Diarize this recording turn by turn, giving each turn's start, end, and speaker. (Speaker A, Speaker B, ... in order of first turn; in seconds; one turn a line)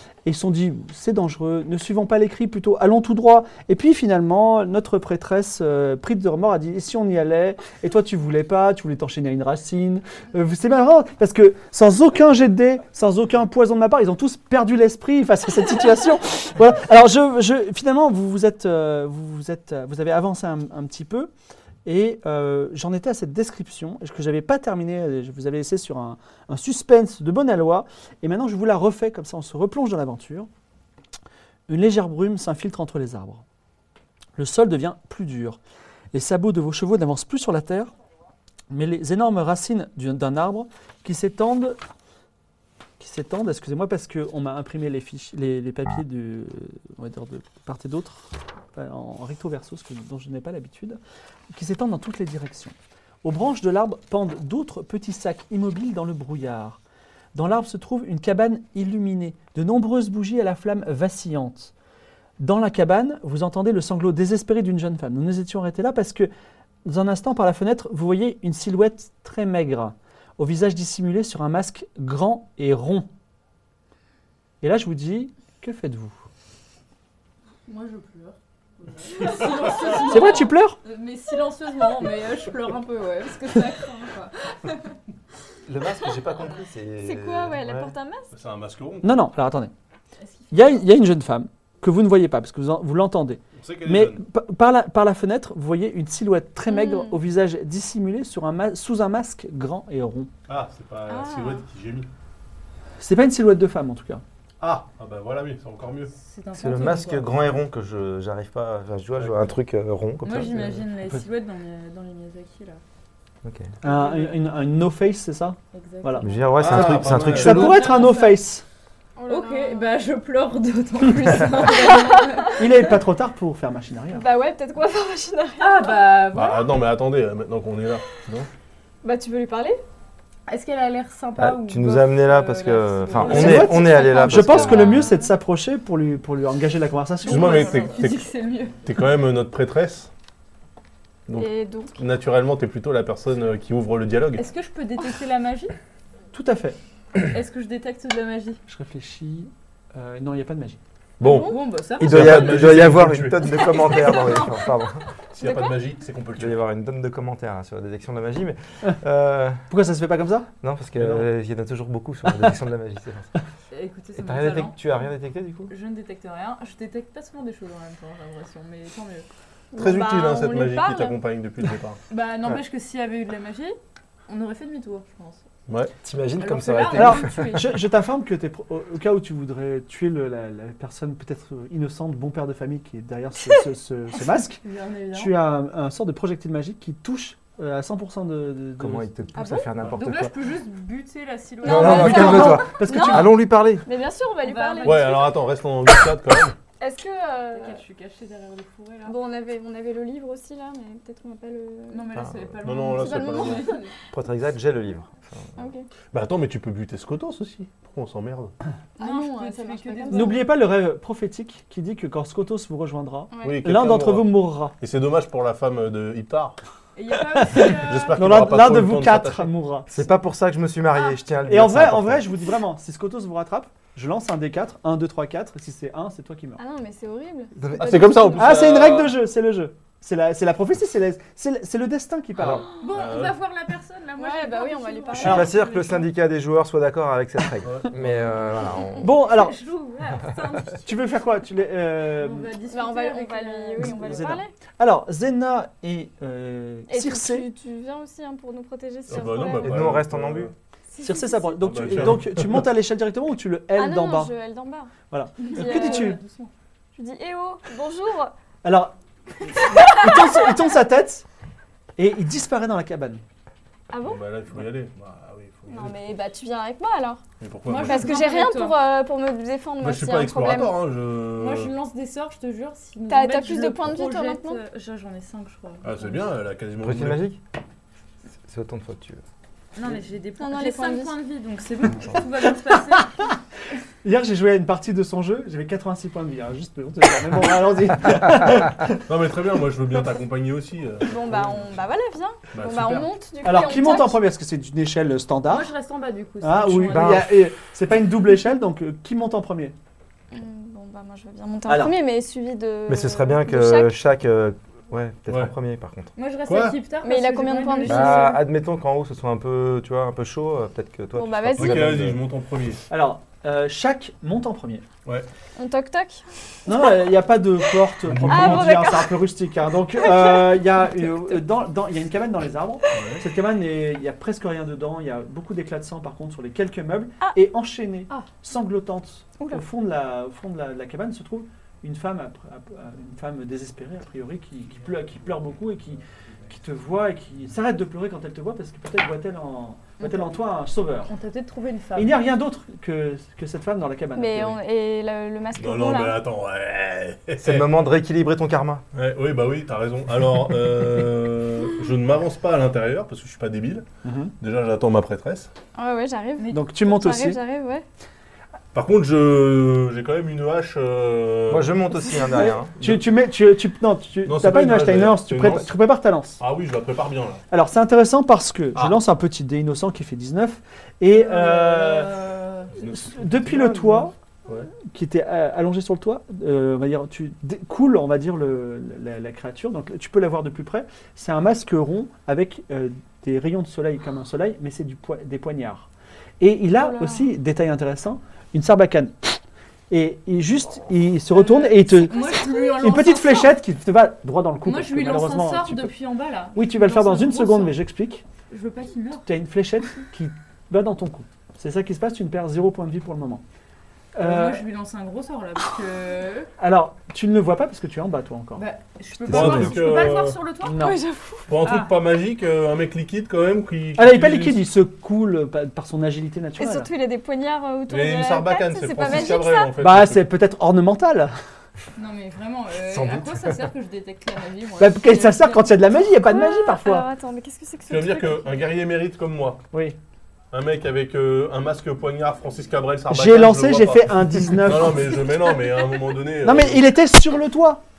Speaker A: 0.2-21.3
Speaker A: 21.9-30.5
Speaker A: 31.7-33.5
Speaker A: 34.4-35.6
Speaker A: 36.1-37.9
Speaker A: 38.7-41.8
Speaker A: 43.0-51.0
Speaker A: 51.5-56.8
Speaker A: 57.4-61.7
Speaker A: 62.4-66.3
Speaker A: 66.8-73.1
Speaker A: 74.6-76.2
Speaker B: 77.7-84.9
Speaker C: 79.2-80.3
Speaker A: 80.1-80.8
Speaker D: 85.7-87.9
Speaker C: 87.0-88.3
Speaker E: 88.3-89.2
Speaker A: 89.0-89.7
Speaker B: 90.2-90.8
Speaker A: 90.5-100.3
Speaker E: 93.5-94.2
Speaker C: 96.7-97.2
Speaker E: 100.5-102.1
Speaker C: 101.1-101.7
Speaker A: 103.0-104.2
Speaker E: 104.6-106.1
Speaker B: 106.2-107.6
Speaker D: 106.5-110.8
Speaker E: 109.2-109.5
Speaker B: 110.2-112.8
Speaker D: 113.4-113.7
Speaker B: 113.8-114.5
Speaker A: 113.8-118.6
Speaker B: 115.7-116.7
Speaker D: 116.2-117.7
Speaker E: 116.5-117.9
Speaker B: 117.3-118.4
Speaker C: 119.2-119.9
Speaker B: 119.3-122.7
Speaker C: 121.4-122.5
Speaker A: 122.6-124.3
Speaker C: 124.1-126.1
Speaker B: 125.6-126.7
Speaker E: 126.3-128.5
Speaker C: 129.0-129.8
Speaker B: 130.5-134.1
Speaker D: 131.4-135.1
Speaker C: 133.2-135.3
Speaker A: 133.3-137.8
Speaker B: 137.2-138.8
Speaker E: 137.3-138.3
Speaker E: 138.8-140.1
Speaker E: 141.3-144.5
Speaker C: 141.4-142.0
Speaker B: 144.4-145.8
Speaker A: 146.3-146.8
Speaker B: 147.2-148.6
Speaker A: 148.7-150.8
Speaker E: 151.2-153.9
Speaker D: 151.2-155.0
Speaker B: 151.3-152.3
Speaker C: 154.0-154.5
Speaker E: 155.3-156.6
Speaker C: 155.4-155.8
Speaker D: 156.4-159.7
Speaker A: 159.7-160.5
Speaker D: 160.6-163.3
Speaker E: 161.0-161.2
Speaker A: 162.3-162.5
Speaker B: 163.7-165.1
Speaker D: 164.2-165.7
Speaker B: 165.7-169.3
Speaker C: 169.7-171.2
Speaker E: 169.8-172.0
Speaker B: 172.1-173.8
Speaker B: 174.3-175.4
Speaker E: 175.7-175.9
Speaker D: 176.0-177.6
Speaker B: 176.3-177.8
Speaker A: 176.9-184.6
Speaker B: 184.6-185.4
Speaker A: 185.1-189.1
Speaker D: 188.8-190.3
Speaker B: 189.4-192.6
Speaker C: 191.6-195.4
Speaker D: 191.7-193.9
Speaker A: 191.7-193.3
Speaker B: 194.4-195.3
Speaker E: 194.8-196.6
Speaker C: 196.8-197.8
Speaker B: 197.5-199.2
Speaker C: 199.1-202.2
Speaker B: 201.9-203.9
Speaker E: 202.6-203.7
Speaker C: 202.9-203.8
Speaker D: 204.1-205.5
Speaker C: 205.6-205.9
Speaker E: 206.1-208.5
Speaker C: 209.0-210.5
Speaker B: 209.0-210.4
Speaker A: 210.1-214.7
Speaker C: 213.3-213.7
Speaker E: 213.4-216.6
Speaker B: 217.0-218.5
Speaker A: 217.6-219.9
Speaker E: 217.8-219.5
Speaker D: 219.9-222.3
Speaker A: 221.5-226.6
Speaker C: 226.6-228.6
Speaker D: 227.6-228.3
Speaker E: 227.7-229.2
Speaker A: 228.3-232.7
Speaker E: 232.4-233.4
Speaker B: 232.8-236.1
Speaker C: 234.2-235.6
Speaker D: 235.2-239.1
Speaker A: 235.2-235.5
Speaker E: 237.6-238.3
Speaker A: 239.0-239.6
Speaker B: 239.1-241.1
Speaker A: 240.8-242.5
Speaker B: 242.2-244.3
Speaker C: 242.6-244.5
Speaker A: 243.8-247.5
Speaker C: 246.9-249.8
Speaker E: 249.1-250.5
Speaker D: 249.6-250.5
Speaker C: 250.9-251.6
Speaker A: 251.0-254.3
Speaker E: 251.6-252.7
Speaker C: 253.7-254.9
Speaker A: 255.1-256.2
Speaker C: 255.4-256.2
Speaker B: 255.4-256.5
Speaker C: 257.0-258.3
Speaker A: 258.6-261.2
Speaker C: 259.7-260.6
Speaker A: 262.0-263.2
Speaker C: 263.9-264.2
Speaker E: 264.0-266.2
Speaker C: 265.7-267.2
Speaker E: 267.4-268.1
Speaker B: 267.7-268.8
Speaker C: 267.8-270.8
Speaker E: 269.8-271.7
Speaker B: 271.3-276.3
Speaker C: 273.1-274.6
Speaker E: 275.8-277.2
Speaker D: 276.8-277.4
Speaker D: 278.4-279.2
Speaker B: 279.8-283.3
Speaker C: 280.4-281.2
Speaker A: 284.0-289.0
Speaker E: 288.9-291.8
Speaker C: 291.0-294.2
Speaker E: 292.5-293.1
Speaker A: 293.4-295.7
Speaker B: 295.5-297.2
Speaker A: 296.4-299.8
Speaker D: 296.9-297.3
Speaker C: 300.3-303.9
Speaker A: 301.7-301.9
Speaker D: 302.9-306.1
Speaker E: 305.3-305.5
Speaker B: 306.2-308.4
Speaker E: 306.4-306.8
Speaker C: 307.0-308.4
Speaker D: 307.9-312.2
Speaker C: 311.1-311.9
Speaker E: 311.6-312.8
Speaker A: 312.9-314.9
Speaker C: 315.6-316.9
Speaker A: 316.7-341.1
Speaker E: 318.0-318.8
Speaker C: 318.3-319.3
Speaker C: 319.9-321.4
Speaker E: 322.9-323.2
Speaker B: 341.1-342.2
Speaker A: 342.0-344.6
Speaker C: 344.1-346.2
Speaker E: 345.6-347.7
Speaker D: 347.4-348.8
Speaker E: 348.9-353.9
Speaker A: 354.0-354.3
Speaker E: 354.4-355.5
Speaker C: 355.8-357.9
Speaker A: 356.5-357.4
Speaker E: 358.7-361.8
Speaker D: 361.5-362.7
Speaker C: 362.1-362.6
Speaker A: 362.8-366.4
Speaker E: 362.8-363.1
Speaker E: 364.2-365.7
Speaker E: 366.4-367.4
Speaker A: 367.5-372.2
Speaker E: 371.5-374.7
Speaker A: 372.9-374.1
Speaker A: 374.7-385.9
Speaker A: 386.4-389.4
Speaker C: 386.8-387.2
Speaker A: 389.9-392.2
Speaker B: 391.3-393.6
Speaker C: 392.2-392.6
Speaker A: 392.8-395.9
Speaker B: 394.6-397.8
Speaker A: 396.6-398.2
Speaker B: 398.5-399.3
Speaker A: 399.2-403.4
Speaker A: 404.1-404.6
Speaker B: 404.2-406.5
Speaker A: 406.6-408.6
Speaker B: 408.6-410.8
Speaker E: 409.3-410.4
Speaker A: 409.3-409.7
Speaker A: 410.6-411.0
Speaker C: 410.7-411.5
Speaker E: 411.5-414.7
Speaker B: 411.6-411.9
Speaker A: 414.0-416.9
Speaker C: 416.6-419.8
Speaker E: 417.9-420.3
Speaker A: 419.8-421.3
Speaker B: 422.0-425.8
Speaker D: 422.9-423.6
Speaker A: 424.8-427.1
Speaker C: 426.1-428.6
Speaker E: 427.9-429.6
Speaker A: 429.7-430.0
Speaker E: 430.5-436.9
Speaker A: 433.1-435.2
Speaker A: 436.4-437.8